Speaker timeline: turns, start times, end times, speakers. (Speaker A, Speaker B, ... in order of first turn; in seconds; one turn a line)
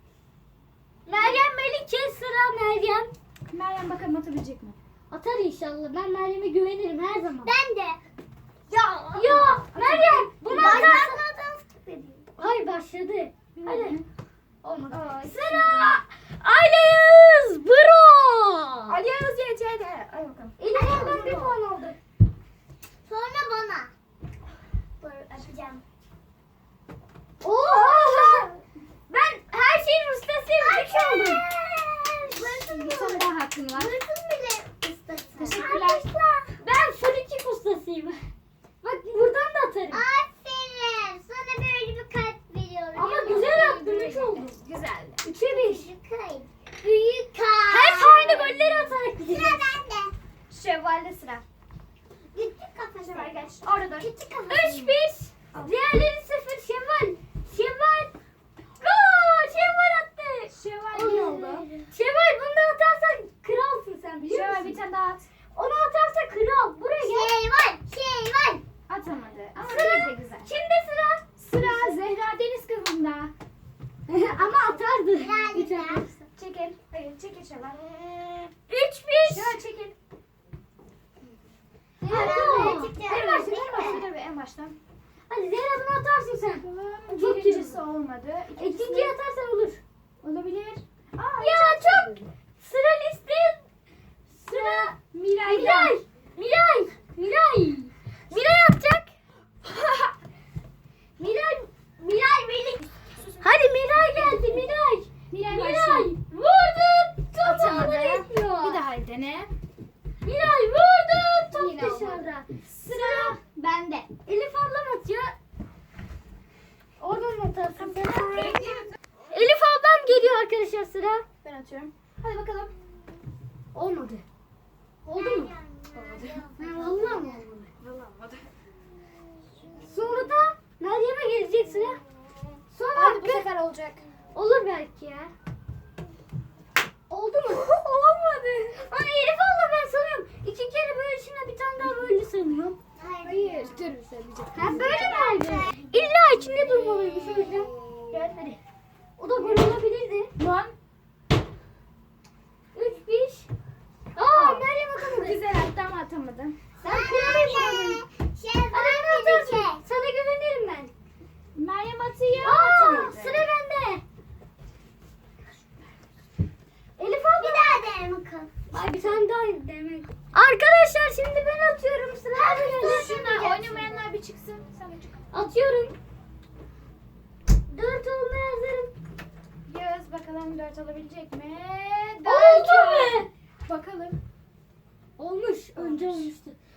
Speaker A: 1.1-3.1
Speaker B: 3.5-4.8
Speaker A: 5.1-7.5
Speaker C: 7.5-8.0
Speaker C: 8.7-9.5
Speaker A: 9.1-11.2
Speaker B: 9.2-10.9
Speaker C: 10.5-12.3
Speaker A: 12.4-14.0
Speaker B: 13.6-14.0
Speaker A: 14.6-19.0
Speaker B: 14.9-16.0
Speaker B: 18.9-20.6
Speaker A: 20.6-22.0
Speaker C: 20.7-21.5
Speaker C: 23.1-23.9
Speaker C: 25.0-25.8
Speaker A: 27.4-28.6
Speaker B: 27.6-28.5
Speaker A: 29.1-31.5
Speaker C: 30.6-36.6
Speaker B: 32.4-34.0
Speaker B: 35.4-36.1
Speaker A: 35.4-35.8
Speaker A: 36.6-38.2
Speaker A: 38.8-40.0
Speaker C: 39.9-44.1
Speaker A: 43.0-44.6
Speaker B: 43.1-45.3
Speaker A: 45.2-45.9
Speaker C: 45.3-48.5
Speaker A: 47.7-49.7
Speaker B: 48.4-48.9
Speaker C: 49.3-50.1
Speaker B: 50.5-51.4
Speaker C: 52.3-54.9
Speaker B: 53.1-54.1
Speaker A: 54.5-58.1
Speaker A: 58.8-64.8
Speaker B: 60.5-61.7
Speaker B: 64.2-65.3
Speaker A: 65.5-67.3
Speaker C: 67.0-68.6
Speaker B: 68.9-70.5
Speaker A: 69.6-72.0
Speaker B: 71.4-73.3
Speaker A: 74.1-76.2
Speaker B: 74.2-74.8
Speaker C: 75.2-76.1
Speaker B: 76.3-78.5
Speaker A: 78.7-79.6
Speaker B: 79.2-80.0
Speaker B: 82.0-84.8
Speaker A: 82.1-83.0
Speaker C: 82.1-84.0
Speaker A: 85.3-87.8
Speaker B: 86.6-89.1
Speaker A: 88.6-89.8
Speaker B: 90.2-92.3
Speaker A: 91.4-93.7
Speaker A: 94.3-99.1
Speaker B: 94.5-96.0
Speaker B: 99.7-100.1
Speaker A: 101.2-102.9
Speaker B: 103.2-104.6
Speaker A: 103.4-108.8
Speaker B: 105.3-106.1
Speaker B: 107.4-109.5
Speaker A: 110.2-113.4
Speaker B: 111.5-114.1
Speaker A: 114.2-115.3
Speaker A: 117.0-118.7
Speaker B: 117.8-118.9
Speaker A: 119.3-121.3
Speaker B: 121.4-122.7
Speaker A: 123.7-124.2
Speaker A: 125.1-125.5
Speaker C: 125.1-127.4
Speaker B: 125.9-126.4
Speaker A: 126.6-127.7
Speaker B: 127.8-128.5
Speaker A: 129.8-132.0
Speaker A: 132.7-133.5
Speaker B: 132.9-134.1
Speaker A: 134.3-135.3
Speaker A: 137.1-137.7
Speaker B: 137.5-138.9
Speaker A: 138.9-142.8
Speaker C: 143.0-143.9
Speaker B: 143.2-145.2
Speaker A: 144.5-147.7
Speaker C: 144.6-145.9
Speaker C: 146.9-148.1
Speaker B: 148.1-148.6
Speaker A: 149.2-150.3
Speaker B: 149.4-149.8
Speaker B: 150.4-150.8
Speaker A: 152.7-153.5
Speaker A: 154.2-155.4
Speaker B: 154.3-156.6
Speaker A: 156.8-157.9
Speaker C: 156.8-159.8
Speaker B: 157.2-158.0
Speaker A: 158.7-160.9
Speaker B: 161.6-163.5
Speaker A: 162.4-164.0
Speaker A: 167.0-167.8
Speaker C: 167.3-168.6
Speaker A: 168.7-173.6
Speaker C: 172.3-174.0
Speaker B: 172.8-175.2
Speaker A: 175.3-176.0
Speaker A: 177.7-178.9
Speaker B: 179.7-184.2
Speaker A: 182.2-183.3
Speaker A: 185.2-186.6
Speaker B: 185.8-186.3